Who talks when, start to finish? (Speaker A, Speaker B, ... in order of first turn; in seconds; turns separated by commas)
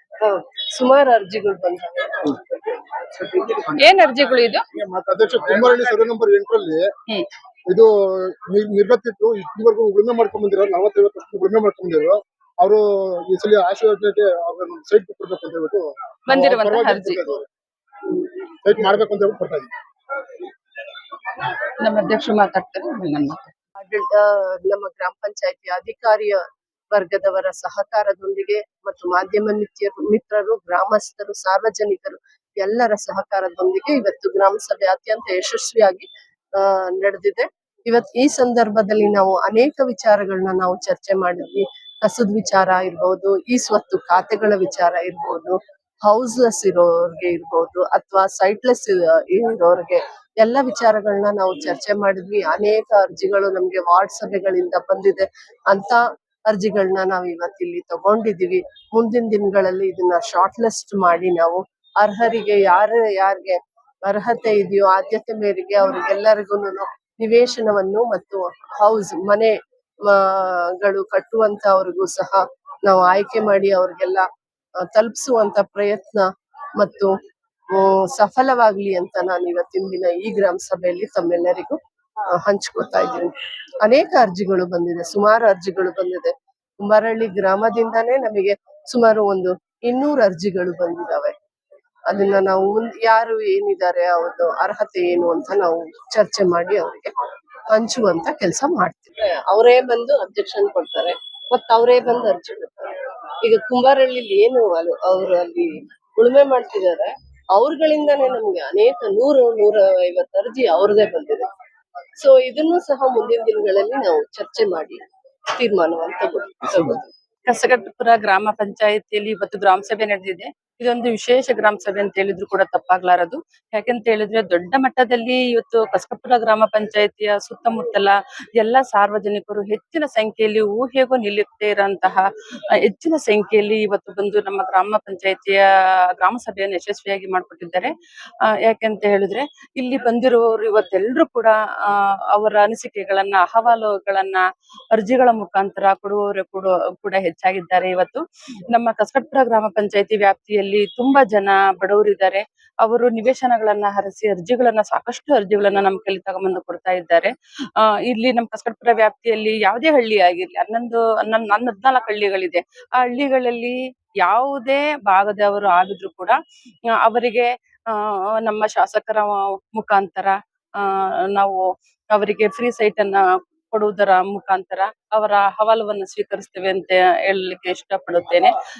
Speaker A: 0.2-3.8, Speaker B: 3.8-4.6, Speaker C: 4.7-6.9, Speaker C: 7.7-17.5, Speaker B: 16.3-17.2, Speaker C: 18.6-19.7, Speaker B: 21.5-23.5, Speaker A: 23.8-69.5, Speaker A: 70.1-74.2, Speaker A: 74.8-76.3, Speaker A: 76.8-77.1, Speaker A: 77.7-81.8, Speaker A: 82.3-91.3, Speaker A: 92.1-97.1, Speaker A: 97.7-111.5, Speaker A: 112.2-115.0, Speaker A: 115.5-117.1, Speaker B: 117.5-132.2, Speaker B: 132.8-135.6, Speaker B: 136.2-137.9, Speaker B: 138.6-144.4, Speaker B: 144.9-166.4, Speaker B: 167.0-178.5